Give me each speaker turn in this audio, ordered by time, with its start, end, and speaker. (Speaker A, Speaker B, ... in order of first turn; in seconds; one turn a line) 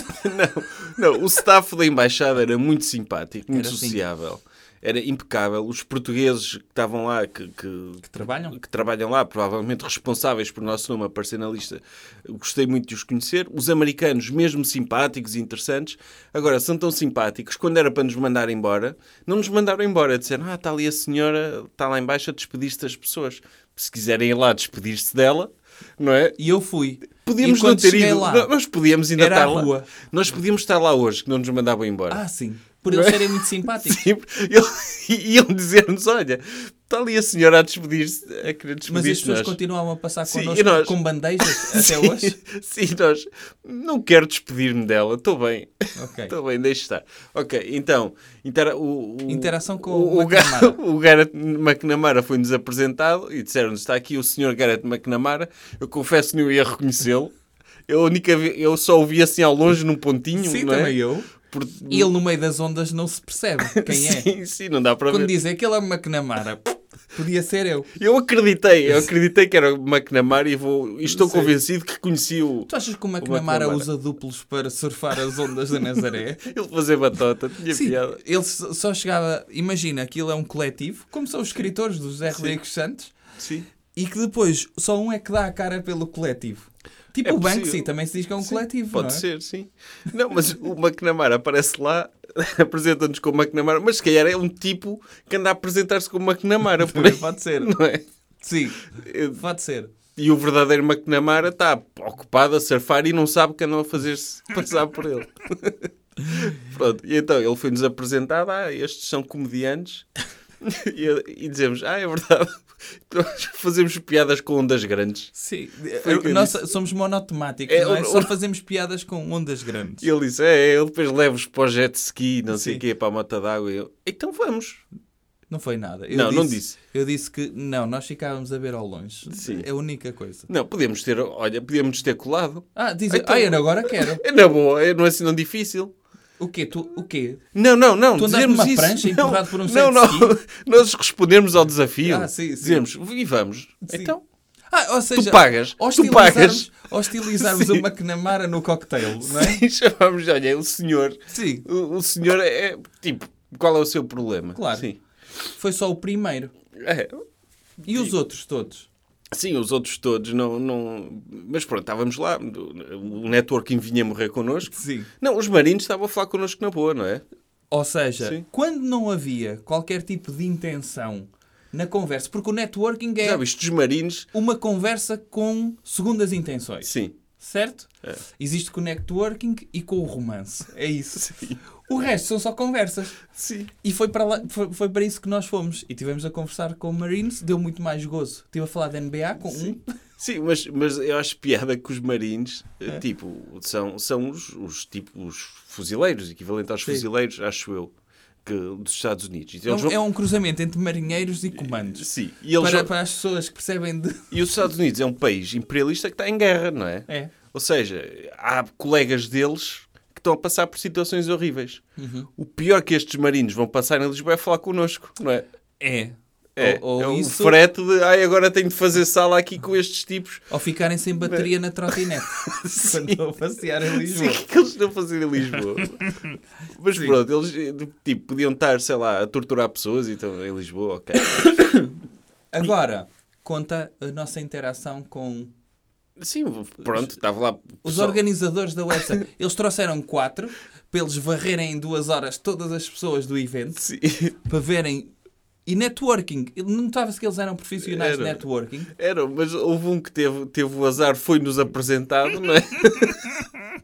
Speaker A: 0.2-26.4
Speaker B: 3.5-4.0
Speaker B: 8.0-8.6
Speaker B: 26.4-28.5
Speaker A: 27.2-32.2
Speaker B: 29.1-29.9
Speaker B: 32.1-34.0
Speaker A: 32.9-39.6
Speaker B: 38.9-42.4
Speaker A: 40.3-57.3
Speaker B: 45.9-46.3
Speaker B: 49.3-50.8
Speaker A: 57.9-62.1
Speaker B: 60.3-61.3
Speaker B: 61.9-64.3
Speaker A: 63.7-65.3
Speaker B: 65.1-67.9
Speaker A: 68.0-72.7
Speaker B: 71.0-71.5
Speaker B: 72.7-76.5
Speaker A: 73.2-73.9
Speaker A: 76.4-78.2
Speaker B: 77.7-83.1
Speaker A: 82.3-82.6
Speaker A: 83.4-83.7
Speaker B: 83.9-89.2
Speaker A: 87.2-87.8
Speaker A: 88.4-98.0
Speaker B: 96.8-97.7
Speaker B: 98.4-99.9
Speaker A: 98.9-99.4
Speaker A: 100.2-110.1
Speaker A: 110.6-115.3
Speaker B: 115.3-120.0
Speaker A: 116.0-116.6
Speaker A: 117.7-118.3
Speaker A: 120.0-124.8
Speaker B: 122.5-122.8
Speaker B: 125.5-130.5
Speaker A: 126.1-126.8
Speaker A: 129.3-129.7
Speaker A: 130.5-135.9
Speaker B: 132.7-134.2
Speaker B: 136.4-137.4
Speaker A: 137.5-144.2
Speaker B: 138.1-140.3
Speaker B: 142.0-142.9
Speaker B: 143.9-144.1
Speaker B: 144.7-149.6
Speaker A: 145.1-147.8
Speaker A: 149.1-155.0
Speaker B: 151.3-151.6
Speaker B: 154.5-154.9
Speaker B: 155.6-156.5
Speaker A: 156.8-157.2
Speaker B: 157.8-158.9
Speaker A: 159.3-167.2
Speaker B: 164.7-165.1
Speaker B: 167.7-173.4
Speaker A: 173.2-174.3
Speaker B: 174.3-183.2
Speaker A: 176.8-177.2
Speaker A: 181.3-181.6
Speaker A: 183.3-183.7
Speaker B: 183.8-189.8
Speaker A: 190.2-197.9
Speaker A: 198.4-200.0
Speaker B: 199.7-204.4
Speaker A: 201.5-202.9
Speaker A: 204.3-211.8
Speaker B: 207.1-207.3
Speaker B: 212.0-212.3
Speaker A: 212.4-215.4
Speaker B: 215.8-217.6
Speaker A: 216.6-220.5
Speaker B: 220.5-224.4
Speaker A: 221.3-223.2
Speaker A: 223.9-226.1
Speaker B: 225.6-226.3
Speaker A: 226.8-231.9
Speaker B: 226.9-227.2
Speaker B: 231.3-231.6
Speaker B: 232.5-235.5
Speaker A: 236.2-238.2
Speaker B: 236.9-237.1
Speaker B: 237.8-243.8
Speaker A: 243.8-244.3
Speaker B: 244.4-245.1
Speaker B: 245.7-248.9
Speaker A: 247.8-248.4
Speaker A: 248.9-253.5